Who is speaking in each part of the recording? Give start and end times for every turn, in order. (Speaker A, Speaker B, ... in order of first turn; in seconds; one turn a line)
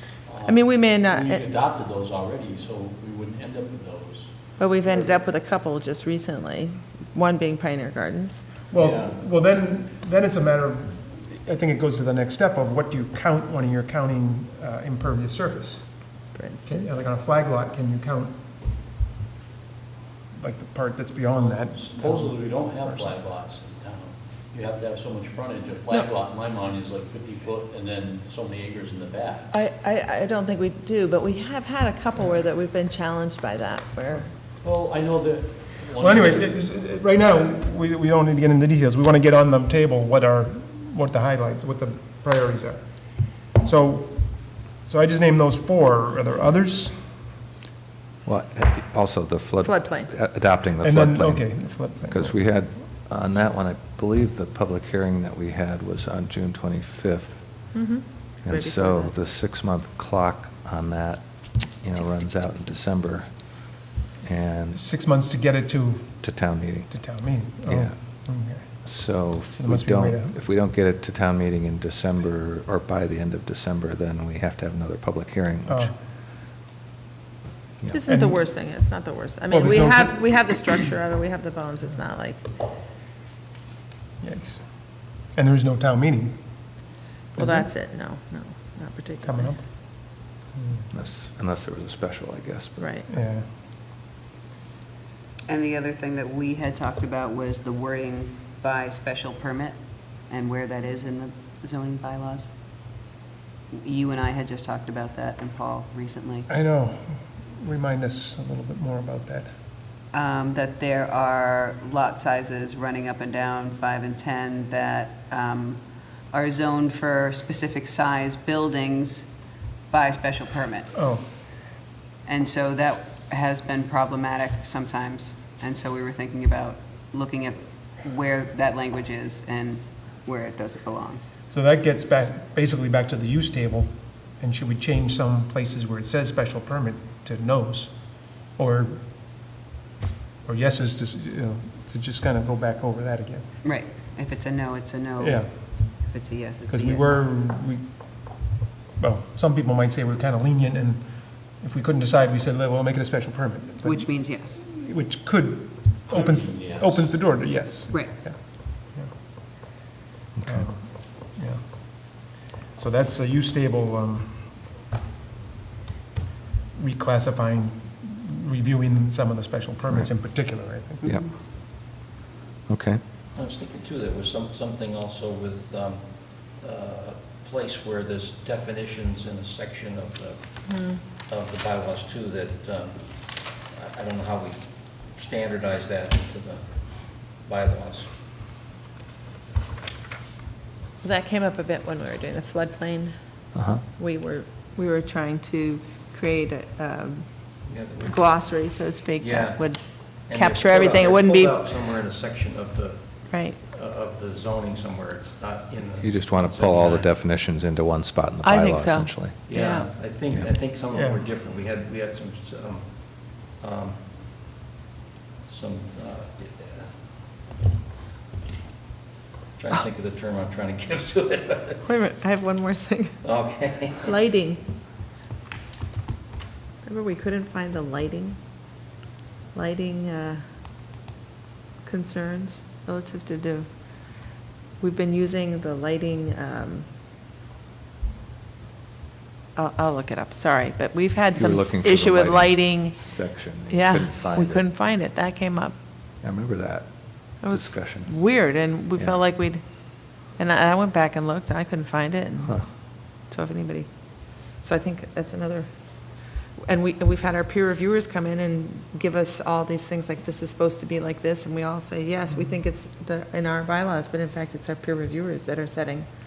Speaker A: 0.2-4.6
Speaker B: 0.5-1.4
Speaker B: 4.6-8.5
Speaker C: 8.7-15.9
Speaker D: 8.8-9.1
Speaker B: 16.4-17.1
Speaker C: 16.6-18.4
Speaker C: 20.4-23.1
Speaker A: 21.3-29.6
Speaker B: 29.5-34.3
Speaker A: 34.6-36.8
Speaker C: 36.0-47.0
Speaker E: 48.2-57.6
Speaker B: 49.6-50.1
Speaker C: 50.8-52.4
Speaker B: 57.7-59.1
Speaker E: 58.5-63.3
Speaker E: 64.2-64.8
Speaker C: 64.7-66.2
Speaker E: 66.2-66.9
Speaker C: 66.9-68.8
Speaker E: 67.7-68.0
Speaker E: 68.8-75.9
Speaker C: 69.5-70.3
Speaker C: 75.7-75.9
Speaker B: 77.9-82.4
Speaker C: 78.1-78.5
Speaker C: 79.5-80.4
Speaker C: 84.2-86.8
Speaker C: 87.3-87.7
Speaker B: 87.4-89.5
Speaker C: 89.2-90.8
Speaker E: 90.9-92.9
Speaker B: 92.8-93.1
Speaker C: 93.1-93.5
Speaker F: 95.5-102.5
Speaker F: 103.7-106.5
Speaker C: 106.5-109.5
Speaker F: 110.1-119.3
Speaker F: 119.9-121.0
Speaker C: 120.9-121.3
Speaker F: 122.2-131.2
Speaker C: 131.5-139.0
Speaker C: 140.4-143.5
Speaker F: 143.6-147.2
Speaker C: 145.2-146.0
Speaker C: 146.7-158.4
Speaker F: 153.8-154.6
Speaker A: 156.1-157.2
Speaker E: 160.3-160.7
Speaker C: 160.5-162.2
Speaker C: 162.8-164.6
Speaker C: 166.8-171.1
Speaker E: 172.7-173.0
Speaker D: 173.4-188.1
Speaker B: 180.7-181.0
Speaker B: 191.0-193.1
Speaker E: 193.6-193.8
Speaker B: 193.9-197.2
Speaker D: 197.7-198.4
Speaker B: 198.0-201.7
Speaker D: 199.2-207.1
Speaker B: 203.3-203.6
Speaker E: 206.0-209.4
Speaker B: 208.4-209.9
Speaker D: 209.5-214.0
Speaker C: 210.9-211.2
Speaker D: 215.5-216.9
Speaker D: 219.6-221.8
Speaker B: 221.8-223.2
Speaker D: 223.2-224.1
Speaker B: 224.0-224.6
Speaker B: 226.8-228.4
Speaker B: 229.5-230.4
Speaker B: 231.8-233.7
Speaker B: 234.8-236.9
Speaker B: 239.6-243.0
Speaker E: 241.3-244.7
Speaker B: 243.7-245.8
Speaker E: 246.2-248.3
Speaker B: 247.4-255.7
Speaker B: 256.6-266.1